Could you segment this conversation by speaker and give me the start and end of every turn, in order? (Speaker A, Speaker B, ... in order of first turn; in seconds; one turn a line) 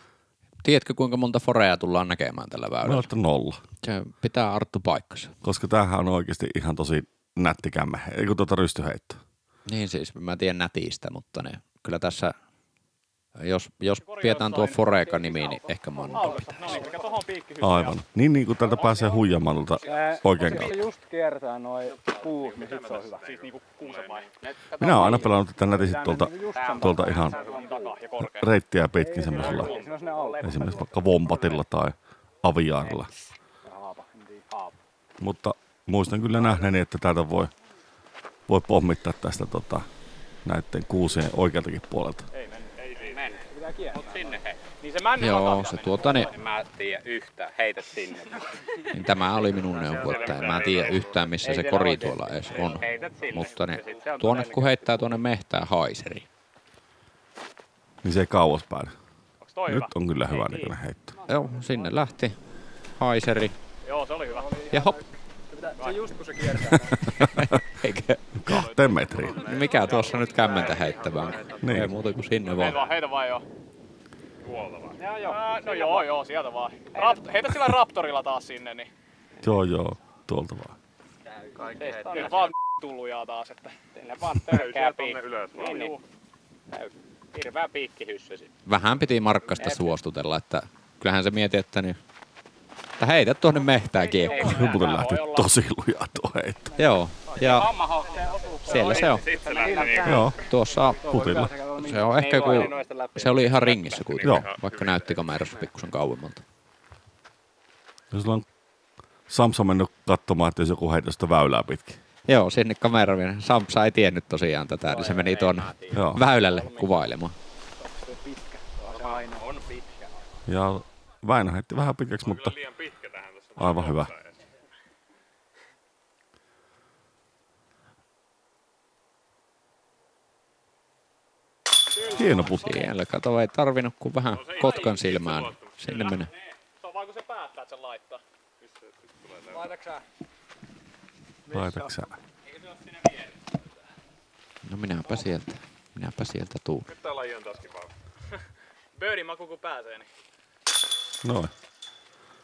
Speaker A: 0.6-3.1
Speaker B: 2.8-3.6
Speaker A: 3.8-5.3
Speaker B: 5.4-9.2
Speaker A: 9.7-12.3
Speaker A: 13.4-16.8
Speaker C: 14.1-14.8
Speaker C: 16.1-18.0
Speaker D: 16.2-17.0
Speaker B: 17.6-20.9
Speaker D: 19.9-23.3
Speaker E: 22.4-24.2
Speaker C: 23.2-24.3
Speaker F: 24.4-25.4
Speaker B: 24.8-27.4
Speaker D: 25.6-27.9
Speaker F: 26.5-27.9
Speaker C: 27.4-28.5
Speaker B: 28.2-29.8
Speaker D: 29.0-30.9
Speaker E: 29.3-30.1
Speaker B: 30.4-33.1
Speaker D: 33.6-34.7
Speaker B: 35.2-37.5
Speaker B: 38.5-39.9
Speaker B: 40.5-42.2
Speaker C: 42.3-42.7
Speaker E: 42.8-43.2
Speaker F: 43.0-44.6
Speaker D: 43.5-44.2
Speaker C: 44.8-46.3
Speaker A: 45.2-46.3
Speaker F: 46.1-48.4
Speaker A: 48.9-56.3
Speaker E: 49.6-51.3
Speaker F: 50.1-50.4
Speaker F: 51.4-54.9
Speaker B: 58.0-58.9
Speaker C: 59.4-60.6
Speaker B: 59.7-61.2
Speaker A: 61.3-62.4
Speaker D: 61.3-61.9
Speaker A: 63.0-63.5
Speaker C: 63.8-64.7
Speaker D: 64.3-67.0
Speaker A: 64.7-65.0
Speaker C: 65.8-66.0
Speaker B: 66.7-67.6
Speaker A: 67.3-68.6
Speaker B: 68.3-69.4
Speaker C: 68.5-70.9
Speaker A: 69.3-72.8
Speaker B: 71.6-71.9
Speaker C: 72.4-73.4
Speaker E: 74.4-75.0
Speaker F: 75.0-76.1
Speaker C: 75.2-78.9
Speaker F: 77.0-77.3
Speaker B: 79.4-80.8
Speaker F: 81.5-82.5
Speaker E: 81.6-82.2
Speaker C: 82.1-83.7
Speaker F: 84.0-86.0
Speaker E: 84.4-85.9
Speaker C: 85.6-86.0
Speaker F: 86.7-88.5
Speaker A: 88.7-92.0
Speaker F: 89.6-89.8
Speaker A: 93.0-94.6
Speaker C: 94.2-95.5
Speaker F: 94.2-94.8
Speaker B: 94.4-96.8
Speaker A: 96.8-97.7
Speaker F: 97.4-100.0
Speaker D: 98.1-100.3
Speaker A: 98.7-99.3
Speaker C: 98.8-99.3
Speaker E: 98.9-100.2
Speaker B: 100.0-100.4
Speaker A: 100.3-101.1
Speaker D: 100.8-102.7
Speaker B: 101.1-101.5
Speaker A: 101.8-106.4
Speaker F: 102.1-104.2
Speaker E: 104.2-105.3
Speaker B: 104.2-104.5
Speaker B: 108.1-108.5
Speaker B: 109.3-112.0
Speaker A: 112.3-117.4
Speaker F: 114.9-117.1
Speaker B: 115.9-116.2
Speaker D: 117.8-119.5
Speaker F: 118.9-120.2
Speaker B: 120.5-122.6
Speaker E: 122.2-124.3
Speaker B: 123.6-124.1
Speaker C: 132.0-132.9
Speaker B: 132.2-132.9
Speaker A: 132.4-136.3
Speaker E: 134.3-136.2
Speaker C: 136.8-138.2
Speaker E: 138.6-139.8
Speaker D: 139.5-140.0
Speaker D: 141.5-142.0
Speaker B: 141.5-142.1
Speaker A: 144.6-146.9
Speaker E: 146.9-147.9
Speaker C: 149.0-150.1
Speaker B: 151.2-151.5